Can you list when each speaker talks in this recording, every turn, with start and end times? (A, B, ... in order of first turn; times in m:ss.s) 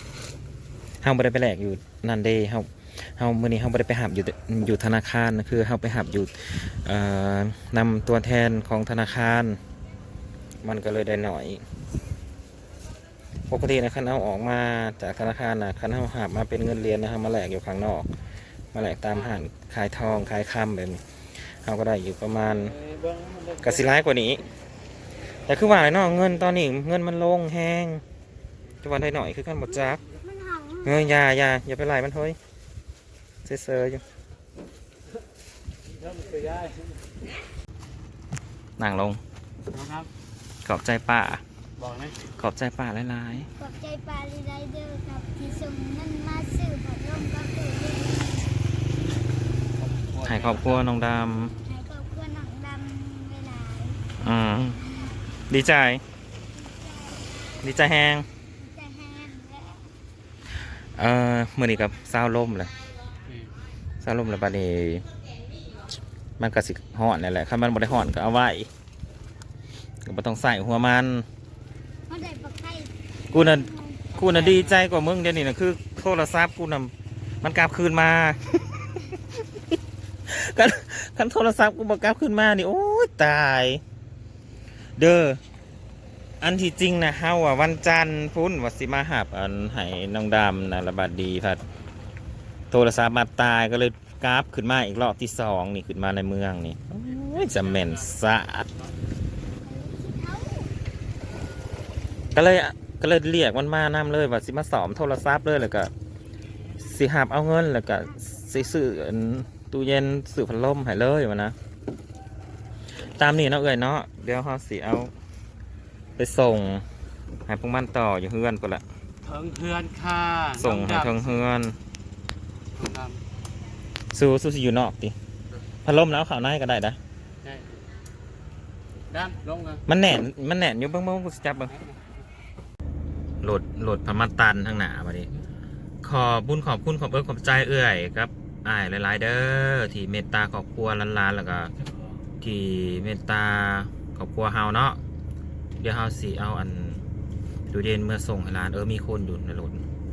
0:01.0-0:09.6 A
0:10.6-0:11.6 A
0:13.5-0:18.1 A
0:18.7-0:22.7 A
0:19.1-0:19.4 B
0:22.4-0:23.8 B
0:23.6-0:24.4 A
0:25.4-0:28.0 A
0:28.8-0:30.0 A
0:30.2-0:30.9 C
0:30.8-0:32.4 A
0:33.4-0:34.0 A
0:35.8-0:37.0 B
0:38.8-0:39.2 A
0:39.7-0:40.1 B
0:40.6-0:41.4 A
0:41.8-0:42.2 B
0:42.4-0:43.5 A
0:43.6-0:48.5 C
0:49.8-0:50.9 B
0:50.2-0:51.5 A
0:51.5-0:54.1 C
0:54.2-0:54.9 A
0:54.8-0:55.2 C
0:55.5-0:56.0 A
0:56.6-0:57.2 C
0:57.6-0:58.3 A
0:58.6-0:59.9 C
1:00.7-1:02.7 A
1:03.2-1:03.5 B
1:04.0-1:05.0 A
1:06.4-1:08.7 A
1:10.0-1:11.2 A
1:12.1-1:14.1 C
1:13.3-1:19.4 A
1:14.1-1:14.8 B
1:20.3-1:23.8 A
1:25.0-1:25.4 A
1:26.4-1:31.6 A
1:32.7-1:38.7 A
1:37.1-1:38.2 B
1:39.6-1:40.7 C
1:42.3-1:45.9 A
1:46.8-1:51.5 A
1:53.0-1:55.1 A
1:56.2-1:56.8 A
1:57.5-1:58.8 A
1:59.2-2:01.4 B
2:00.6-2:01.8 A
2:02.7-2:03.2 B
2:04.1-2:05.2 A
2:05.8-2:07.0 A
2:07.4-2:07.9 B
2:09.1-2:09.8 B
2:09.9-2:11.7 A
2:11.7-2:12.2 B
2:13.4-2:15.3 A
2:16.0-2:21.7 A
2:21.8-2:22.2 B
2:22.4-2:25.0 A
2:25.8-2:27.0 A
2:27.7-2:29.8 A